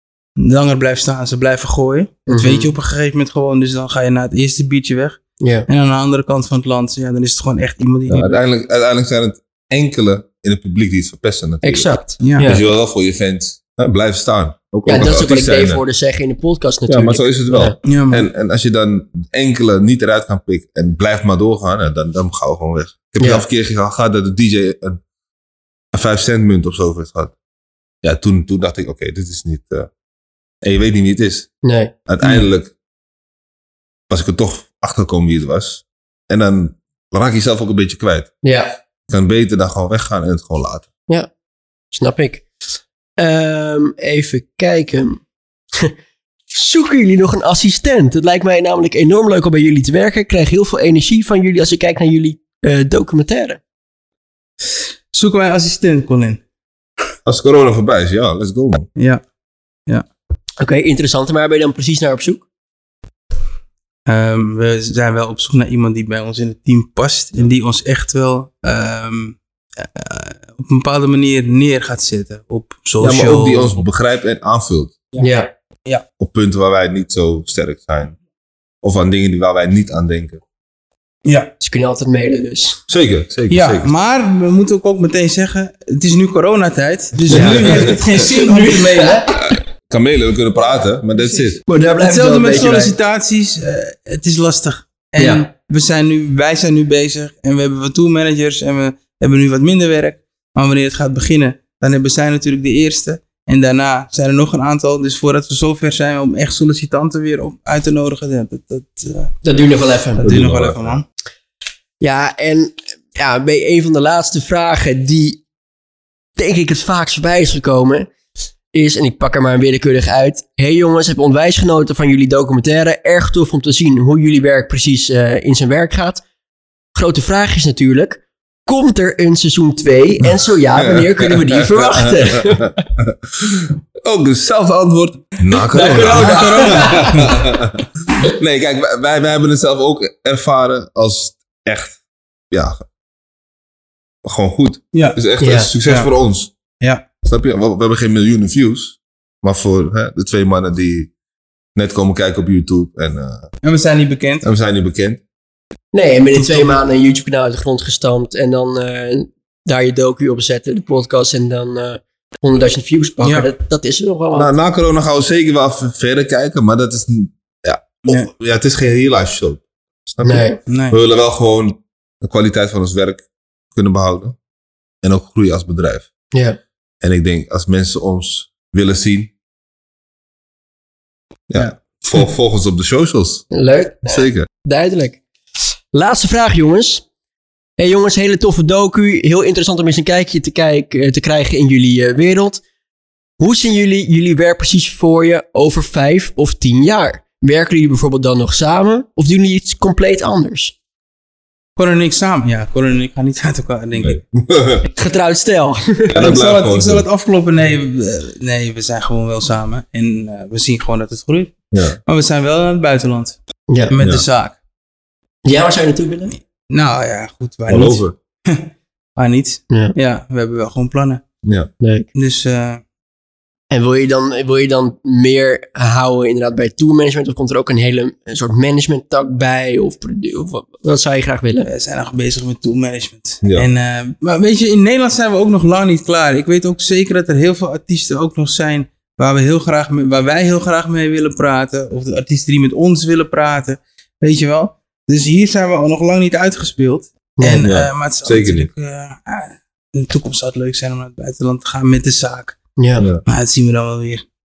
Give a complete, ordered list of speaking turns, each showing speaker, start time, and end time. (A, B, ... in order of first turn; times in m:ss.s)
0:00.4-0:08.4 A
0:02.3-0:02.7 B
0:05.4-0:05.7 B
0:08.1-0:15.8 C
0:11.6-0:12.6 B
0:12.2-0:12.5 A
0:14.9-0:17.8 B
0:16.9-0:25.0 C
0:17.8-0:18.3 A
0:23.2-0:23.4 B
0:25.9-0:27.3 C
0:28.0-0:29.9 C
0:30.6-0:31.5 C
0:31.6-0:31.9 B
0:32.1-0:32.7 C
0:34.1-0:38.4 C
0:38.4-0:38.8 B
0:39.1-0:40.9 C
0:41.9-0:42.5 B
0:43.2-0:45.2 B
0:46.5-0:53.6 B
0:55.1-0:56.4 A
0:57.3-0:58.9 C
0:59.0-0:59.2 A
1:00.6-1:02.4 B
1:04.1-1:13.8 A
1:13.0-1:15.0 C
1:15.2-1:15.5 B
1:16.2-1:18.2 C
1:18.8-1:20.4 C
1:21.2-1:21.5 A
1:21.6-1:22.8 B
1:22.9-1:23.9 C
1:23.5-1:29.3 A
1:27.3-1:28.0 C
1:27.3-1:29.4 B
1:29.4-1:31.6 C
1:31.6-1:33.0 B
1:32.0-1:49.4 A
1:35.2-1:35.5 B
1:49.4-1:50.3 B
1:50.2-1:51.0 A
1:50.2-1:51.0 C
1:52.0-1:55.4 B
1:56.4-1:58.1 B
1:58.7-2:06.2 B
2:06.9-2:12.9 B
2:10.8-2:22.0 C
2:15.7-2:17.3 B
2:15.7-2:17.4 A
2:22.5-2:22.8 C
2:24.2-2:26.5 C
2:24.9-2:25.2 A
2:25.4-2:25.7 B
2:27.2-2:31.1 C
2:31.8-2:33.5 C
2:33.6-2:34.4 A
2:34.4-2:35.2 C
2:35.9-2:44.5 B
2:36.4-2:36.8 A
2:43.2-2:43.5 A
2:44.4-2:54.4 C
2:50.2-2:50.6 B
2:50.7-2:51.0 A
2:55.0-2:56.1 C
2:56.3-2:56.6 B
2:57.0-2:59.3 C
3:01.5-3:03.5 C
3:03.5-3:05.2 B
3:04.1-3:04.5 C
3:05.9-3:07.0 B
3:07.8-3:12.6 B
3:13.4-3:20.8 B
3:21.8-3:24.2 A
3:24.0-3:24.9 C
3:24.9-3:26.2 B
3:26.1-3:27.0 C
3:26.1-3:31.6 A
3:31.7-3:32.0 C
3:32.1-3:33.4 A
3:33.7-3:34.0 B
3:33.9-3:34.6 A
3:35.4-3:36.3 B
3:36.7-3:41.2 A
3:37.7-3:38.1 C
3:39.7-3:40.0 B
3:41.4-3:41.7 C
3:41.8-3:42.1 B
3:42.2-3:42.8 A
3:43.7-3:51.7 B
3:51.6-4:12.6 A
3:53.4-3:53.7 C
4:07.4-4:07.7 B
4:07.6-4:08.7 C
4:12.8-4:13.1 B
4:13.2-4:14.2 A